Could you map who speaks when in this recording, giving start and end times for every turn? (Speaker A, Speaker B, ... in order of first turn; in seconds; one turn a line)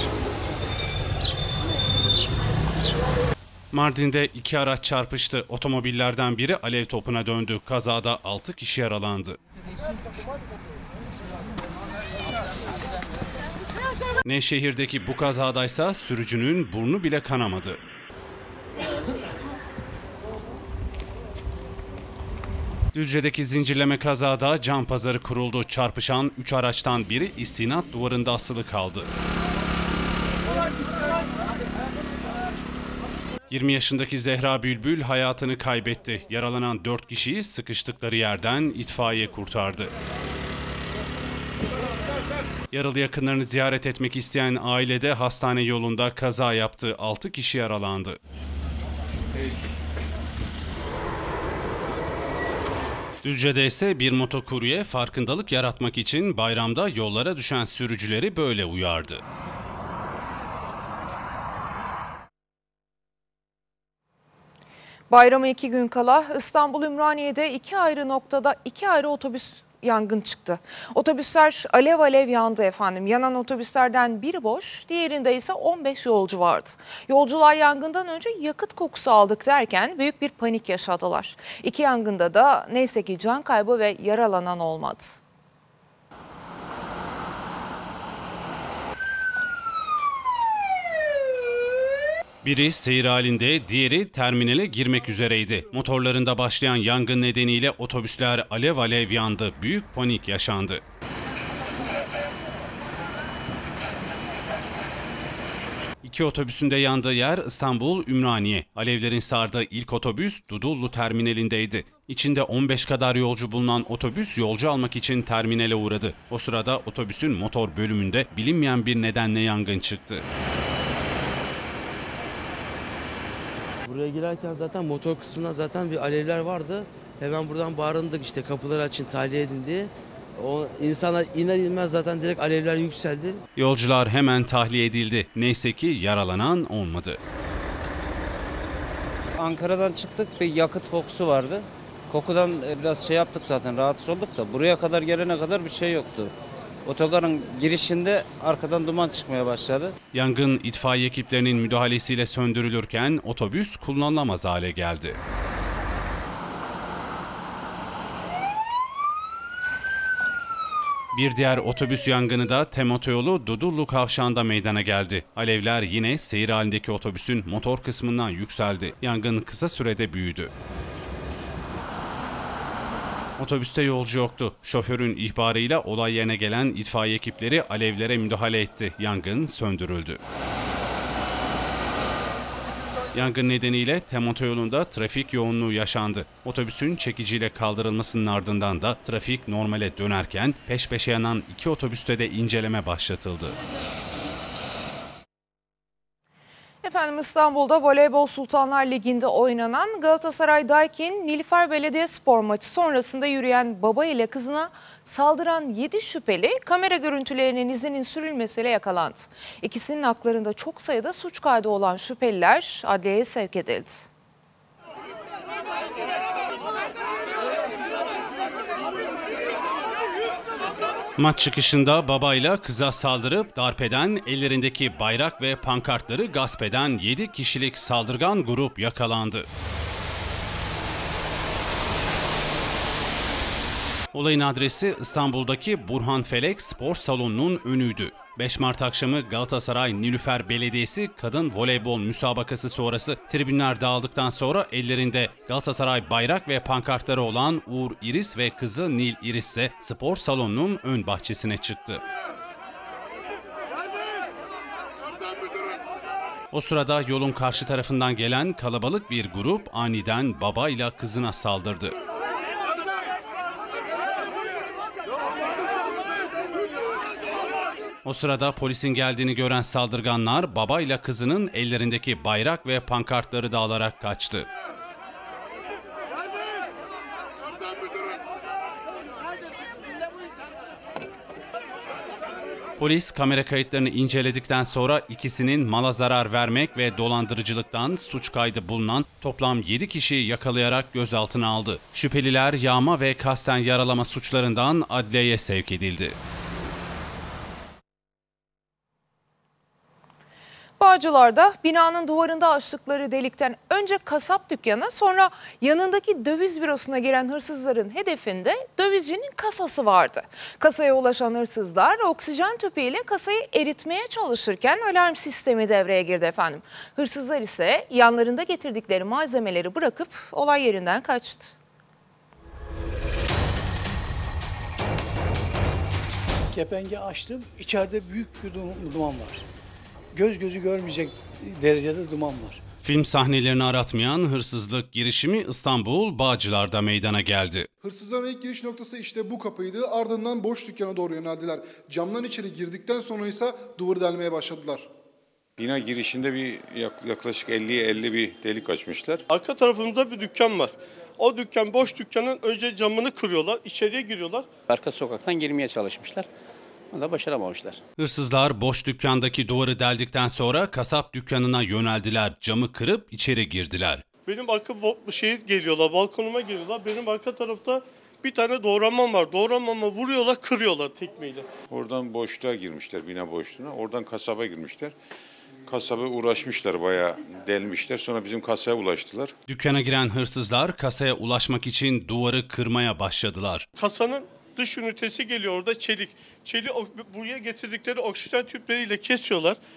Speaker A: 3.7-9.4
Speaker A: 14.2-17.8
Speaker A: 22.9-29.1
Speaker A: 33.5-39.9
Speaker A: 42.7-48.2
Speaker A: 53.2-59.2
Speaker B: 65.1-85.2
Speaker A: 92.4-100.8
Speaker A: 106.0-120.2
Speaker C: 123.8-133.4
Speaker A: 133.6-137.2
Speaker D: 139.4-146.3
Speaker D: 146.8-149.9
Speaker A: 150.1-155.2
Speaker A: 161.1-170.5
Speaker A: 173.4-180.2
Speaker A: 183.1-193.6
Speaker B: 196.8-214.1
Speaker A: 221.2-229.4
Speaker A: 234.1-252.0
Speaker A: 256.5-261.9
Speaker A: 268.0-274.5
Speaker A: 282.8-296.1
Speaker B: 300.8-321.5
Speaker E: 326.5-329.4
Speaker E: 330.1-332.6
Speaker A: 332.8-337.7
Speaker F: 337.8-344.9
Speaker G: 345.6-349.2
Speaker H: 349.3-354.5
Speaker I: 354.7-356.3
Speaker I: 356.9-357.8
Speaker A: 358.0-364.0
Speaker H: 364.2-371.5
Speaker G: 371.7-374.9
Speaker G: 375.6-379.3
Speaker A: 379.5-383.7
Speaker H: 383.8-389.6